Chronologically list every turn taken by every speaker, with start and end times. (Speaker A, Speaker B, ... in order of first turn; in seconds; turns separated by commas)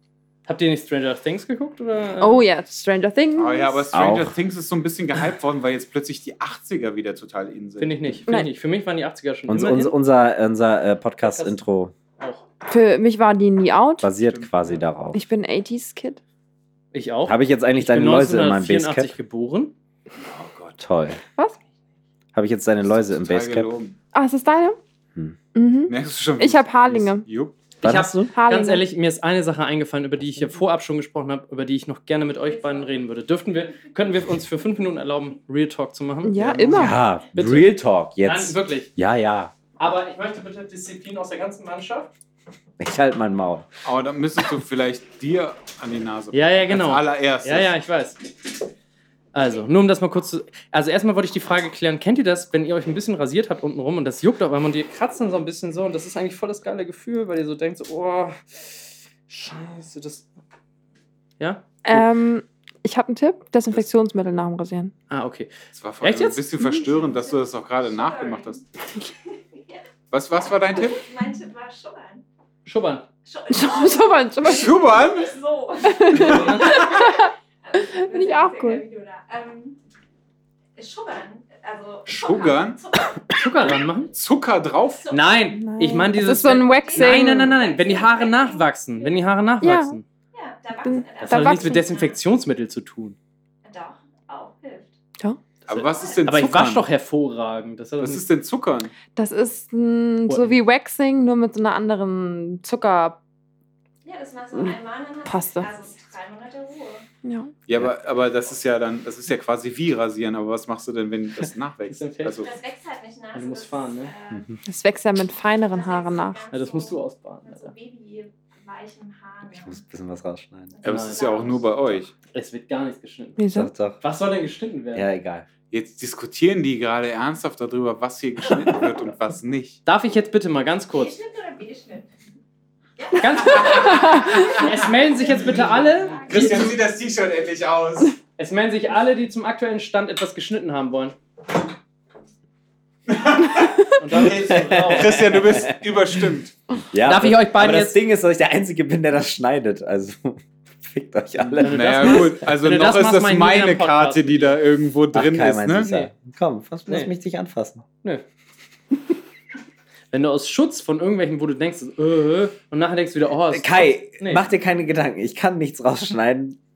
Speaker A: 0.5-2.4, Speaker B: 2.2-3.8, Speaker C: 3.4-8.2, Speaker D: 3.9-4.3, Speaker A: 7.8-10.0, Speaker D: 9.5-11.9, Speaker A: 11.2-11.6, Speaker B: 12.7-14.1, Speaker D: 14.0-15.2, Speaker C: 14.2-14.8, Speaker B: 15.1-16.2, Speaker A: 16.9-19.7, Speaker D: 17.2-19.1, Speaker C: 20.2-20.8, Speaker D: 20.8-21.2, Speaker D: 22.3-23.7, Speaker C: 22.8-23.9, Speaker B: 24.1-24.8, Speaker B: 25.5-27.2, Speaker C: 25.9-27.6, Speaker D: 27.8-28.3, Speaker A: 27.8-36.4, Speaker B: 28.3-28.8, Speaker E: 32.4-33.0, Speaker B: 36.2-37.0, Speaker C: 36.3-36.9, Speaker D: 36.7-39.5, Speaker A: 37.3-38.9, Speaker A: 39.8-42.1, Speaker D: 42.8-43.7, Speaker C: 43.8-47.7, Speaker A: 46.3-48.2, Speaker A: 49.3-60.2, Speaker A: 61.4-61.7, Speaker B: 61.8-64.9, Speaker A: 65.1-66.4, Speaker C: 65.7-68.6, Speaker E: 67.0-69.8, Speaker C: 70.1-71.0, Speaker E: 70.6-72.2, Speaker A: 72.6-73.0, Speaker E: 73.2-79.8, Speaker B: 73.5-74.7, Speaker C: 74.4-75.3, Speaker B: 75.8-78.8, Speaker A: 76.1-76.9, Speaker C: 76.1-77.0, Speaker E: 80.8-83.4, Speaker C: 82.1-82.8, Speaker A: 83.3-84.1, Speaker C: 84.1-85.1, Speaker A: 85.1-90.0, Speaker B: 85.6-87.5, Speaker E: 86.4-89.3, Speaker B: 89.6-90.0, Speaker E: 90.3-92.2, Speaker B: 90.9-91.8, Speaker A: 91.2-93.2, Speaker E: 93.6-94.9, Speaker C: 95.7-96.9, Speaker A: 95.7-98.2, Speaker E: 95.9-96.2, Speaker C: 98.0-98.9, Speaker B: 99.2-103.2, Speaker A: 100.3-100.6, Speaker E: 104.0-107.0, Speaker B: 105.3-105.7, Speaker B: 107.2-107.5, Speaker C: 107.7-112.5, Speaker A: 111.8-112.5, Speaker E: 112.3-114.6, Speaker A: 113.3-114.1, Speaker B: 114.7-116.4, Speaker E: 115.7-119.8, Speaker A: 116.5-117.7, Speaker D: 119.6-120.7, Speaker E: 120.7-121.8, Speaker A: 120.8-121.6, Speaker C: 120.8-122.1, Speaker A: 122.3-123.4, Speaker B: 123.4-123.7, Speaker D: 123.5-124.0, Speaker A: 124.0-125.1, Speaker D: 124.9-125.4, Speaker C: 125.7-129.8, Speaker A: 129.8-131.2, Speaker E: 130.9-132.1, Speaker E: 133.0-136.6, Speaker A: 133.2-136.7, Speaker C: 133.5-134.1, Speaker B: 133.7-134.6, Speaker C: 136.2-138.2, Speaker A: 138.4-141.2, Speaker C: 143.1-146.5, Speaker A: 144.0-145.3, Speaker D: 144.3-145.8, Speaker D: 146.9-152.3, Speaker A: 147.0-148.0, Speaker A: 151.6-154.6, Speaker C: 151.6-155.9, Speaker D: 155.1-157.8, Speaker A: 160.1-164.4, Speaker D: 163.5-166.6